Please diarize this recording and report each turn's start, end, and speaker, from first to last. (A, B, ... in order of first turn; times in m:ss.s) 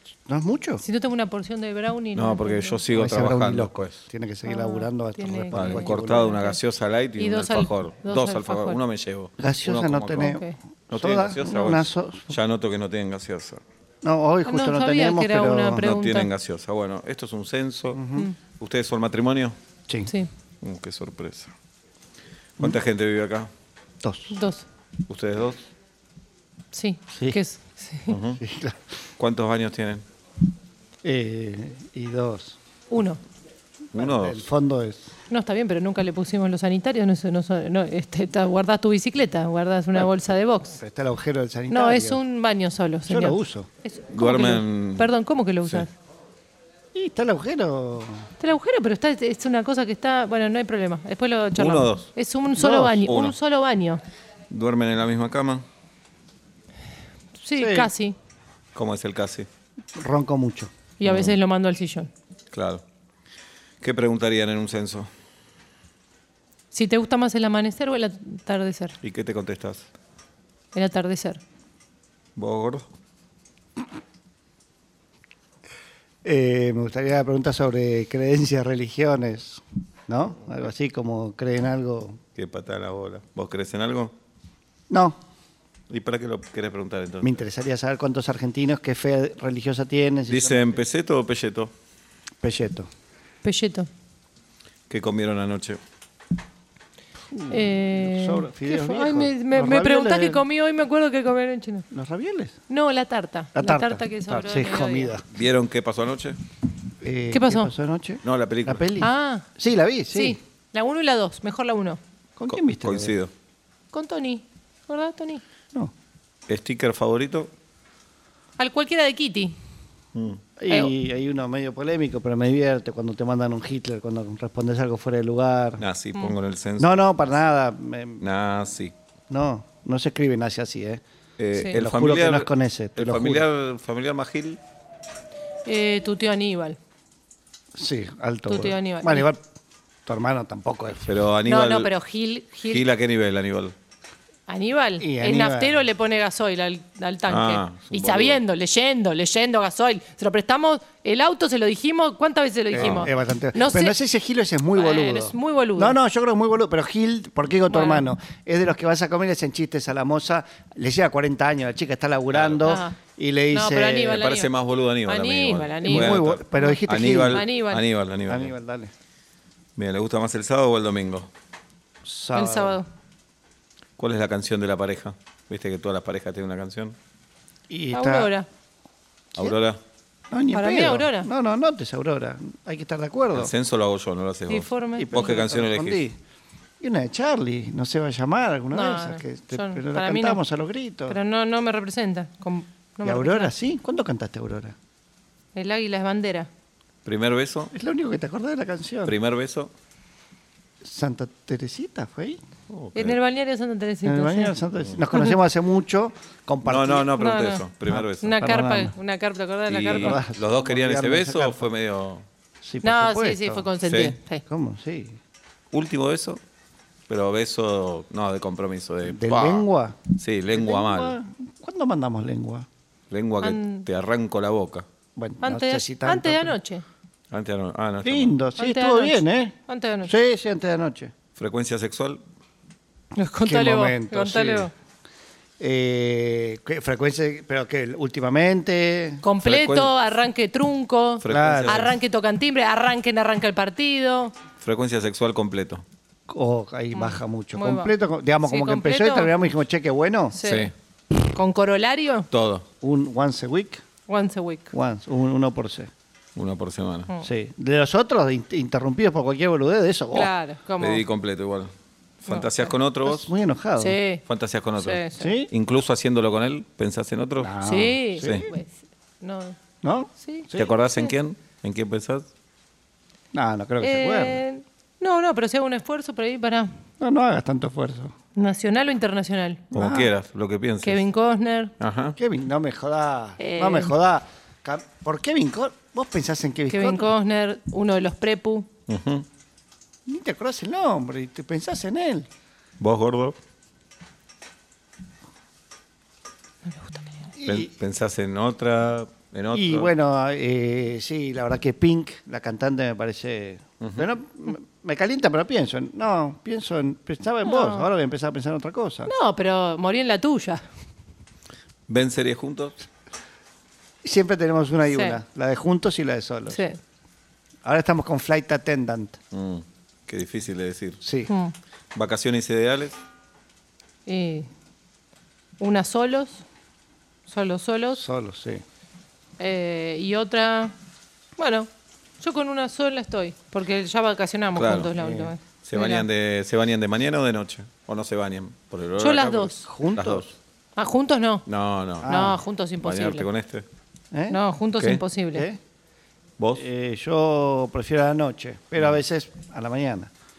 0:00.3-0:00.8 A
0:00.8-0:02.8 B
0:02.1-0:04.0 C
0:02.9-0:06.4 A
0:04.4-0:06.6 B
0:05.5-0:13.6 C
0:07.2-0:08.8 B
0:09.4-0:12.4 A
0:10.2-0:10.5 B
0:14.0-0:15.8 A
0:14.4-0:16.3 B
0:15.8-0:19.6 C
0:17.9-0:18.3 A
0:20.6-0:21.5 C
0:22.6-0:23.5 C
0:24.0-0:24.4 A
0:24.3-0:24.6 B
0:25.1-0:25.7 C
0:26.7-0:28.1 B
0:27.1-0:27.4 A
0:28.1-0:28.4 C
0:28.4-0:28.8 A
0:29.2-0:30.0 C
0:31.0-0:32.6 A
0:32.9-0:33.2 B
0:33.9-0:34.5 C
0:33.9-0:35.1 A
0:35.3-0:40.8 B
0:40.8-0:42.2 A
0:41.7-0:45.9 B
0:43.1-0:43.7 A
0:44.1-0:45.1 C
0:46.9-0:48.3 A
0:48.4-0:54.0 B
0:51.6-0:52.1 C
0:52.5-0:53.1 A
0:53.0-0:53.4 C
0:54.5-0:55.6 C
0:57.4-0:58.2 B
0:57.6-0:57.9 A
0:58.7-0:59.5 C
1:00.0-1:00.7 A
1:01.0-1:02.1 B
1:01.0-1:01.4 C
1:02.5-1:02.8 C
1:03.8-1:05.1 C
1:06.7-1:09.0 B
1:09.0-1:09.9 C
1:10.7-1:11.4 B
1:12.4-1:12.8 C
1:16.2-1:22.2 A
1:22.4-1:24.1 C
1:24.9-1:25.2 A
1:25.9-1:27.4 C
1:27.2-1:30.8 A
1:30.3-1:31.7 C
1:32.4-1:32.9 A
1:33.4-1:33.9 B
1:34.9-1:35.8 C
1:37.3-1:40.4 A
1:37.5-1:41.8 B
1:41.9-1:42.6 A
1:42.7-1:45.2 B
1:43.5-1:45.3 A
1:45.3-1:46.4 C
1:47.0-1:50.4 A
1:47.3-1:47.7 B
1:48.2-1:48.9 C
1:49.0-1:49.5 B
1:50.1-1:52.0 B
1:52.4-1:53.1 A
1:52.5-1:53.3 C
1:53.9-1:55.4 B
1:56.5-1:57.5 C
1:58.6-1:59.6 B
2:00.1-2:00.4 C
2:00.6-2:05.8 A
2:00.7-2:00.9 B
2:05.8-2:07.0 C
2:06.8-2:08.2 A
2:08.2-2:08.9 C
2:09.3-2:11.0 A
2:11.4-2:14.6 C
2:11.6-2:13.5 A
2:15.6-2:16.8 B
2:17.7-2:19.4 A
2:18.4-2:19.3 B
2:20.0-2:21.1 A
2:21.0-2:21.9 C
2:21.4-2:22.8 B
2:22.6-2:23.7 C
2:24.5-2:33.9 B
2:25.0-2:25.9 A
2:27.3-2:28.4 C
2:32.7-2:44.2 A
2:32.7-2:33.1 C
2:34.7-2:36.0 B
2:37.7-2:38.0 B
2:42.3-2:42.6 C
2:42.6-2:43.0 B
2:43.5-2:44.5 B
2:44.1-2:48.5 C
2:45.0-2:47.8 B
2:45.8-2:47.4 A
2:48.3-2:48.9 A
2:49.8-2:51.3 C
2:52.0-2:52.8 A
2:52.3-2:52.9 B
2:54.0-2:57.0 C
2:57.7-2:58.3 A
2:57.9-2:58.5 B
2:59.4-2:59.8 C
3:00.3-3:03.5 A
3:00.5-3:01.3 B
3:03.3-3:06.0 C
3:04.5-3:05.3 B
3:05.0-3:06.2 A
3:06.8-3:11.2 A
3:08.7-3:10.4 B
3:11.1-3:13.5 B
3:13.0-3:14.7 A
3:15.5-3:16.5 B
3:17.0-3:17.7 C
3:17.7-3:19.1 A
3:19.0-3:19.7 C
3:20.8-3:22.4 A
3:22.7-3:23.2 C
3:22.9-3:24.6 B
3:24.0-3:27.1 A
3:26.6-3:28.4 C
3:27.2-3:27.7 B
3:27.9-3:29.0 A
3:28.2-3:30.2 B
3:29.7-3:32.2 C
3:29.9-3:31.7 A
3:32.6-3:33.7 A
3:32.8-3:34.4 B
3:33.8-3:34.2 C
3:34.5-3:35.2 A
3:35.7-3:36.4 C
3:37.1-3:39.6 C
3:39.0-3:40.0 A
3:40.2-3:41.2 C
3:40.5-3:42.6 A
3:43.1-3:44.8 C
3:43.4-3:43.9 B
3:45.2-3:46.6 A
3:45.4-3:46.8 B
3:47.3-3:48.4 C
3:48.0-3:51.1 A
3:48.6-3:50.1 B
3:51.4-3:52.2 C
3:53.1-3:54.7 B
3:53.4-3:54.7 A
3:55.6-3:59.2 A
3:59.2-4:04.3 B
3:59.4-3:59.9 C
4:01.2-4:01.9 C
4:01.3-4:01.9 A
4:04.6-4:05.8 C
4:06.3-4:10.4 A
4:06.9-4:09.4 B
4:10.3-4:10.7 B
4:10.4-4:10.7 C
4:11.3-4:12.3 B
4:12.3-4:12.6 C
4:12.8-4:13.8 A
4:14.1-4:14.7 B
4:14.7-4:15.9 A
4:16.3-4:17.1 C
4:17.2-4:20.3 A
4:20.1-4:21.0 B
4:20.8-4:21.7 C
4:22.2-4:23.3 C
4:22.2-4:22.5 B
4:23.0-4:24.0 A
4:23.8-4:24.2 B
4:24.2-4:27.6 C
4:24.8-4:25.4 B
4:25.2-4:25.5 A
4:27.4-4:28.5 A
4:27.6-4:29.6 B
4:28.2-4:28.5 C
4:29.8-4:30.7 A
4:30.2-4:30.9 B
4:30.5-4:32.3 C
4:33.3-4:34.4 A
4:33.8-4:36.7 B
4:37.0-4:38.1 A
4:38.3-4:39.6 B
4:39.7-4:41.0 C
4:39.7-4:40.1 A
4:40.8-4:41.7 B
4:41.8-4:42.2 C
4:42.2-4:47.1 A
4:43.4-4:43.9 B
4:46.7-4:48.7 B
4:48.9-4:49.2 C
4:50.0-4:52.3 A
4:52.8-4:53.4 C
4:56.6-4:57.3 B
4:57.4-4:57.7 A
4:57.4-4:59.9 C
4:59.5-5:09.1 A
5:03.8-5:04.1 C
5:07.4-5:07.9 B
5:09.0-5:10.6 B
5:11.9-5:12.8 C
5:14.0-5:16.6 A
5:14.9-5:15.2 B
5:16.5-5:16.8 B
5:17.6-5:19.2 A
5:19.3-5:21.0 C
5:21.0-5:21.3 A
5:21.3-5:21.5 B
5:21.9-5:23.0 C
5:24.0-5:24.5 B
5:25.6-5:26.4 B
5:27.3-5:28.0 B
5:27.9-5:28.6 A
5:29.4-5:30.7 B
5:31.4-5:31.7 B
5:32.2-5:36.0 B
5:34.6-5:34.9 C
5:34.9-5:35.3 A
5:35.6-5:40.3 C
5:39.0-5:39.7 B
5:39.6-5:40.3 A
5:40.8-5:41.4 B
5:41.4-5:42.1 C
5:42.0-5:42.4 A
5:42.0-5:43.3 B
5:42.8-5:43.6 C
5:44.1-5:44.4 A
5:44.3-5:45.5 B
5:44.8-5:45.0 C
5:45.3-5:45.6 A
5:46.4-5:46.6 C
5:46.5-5:50.1 A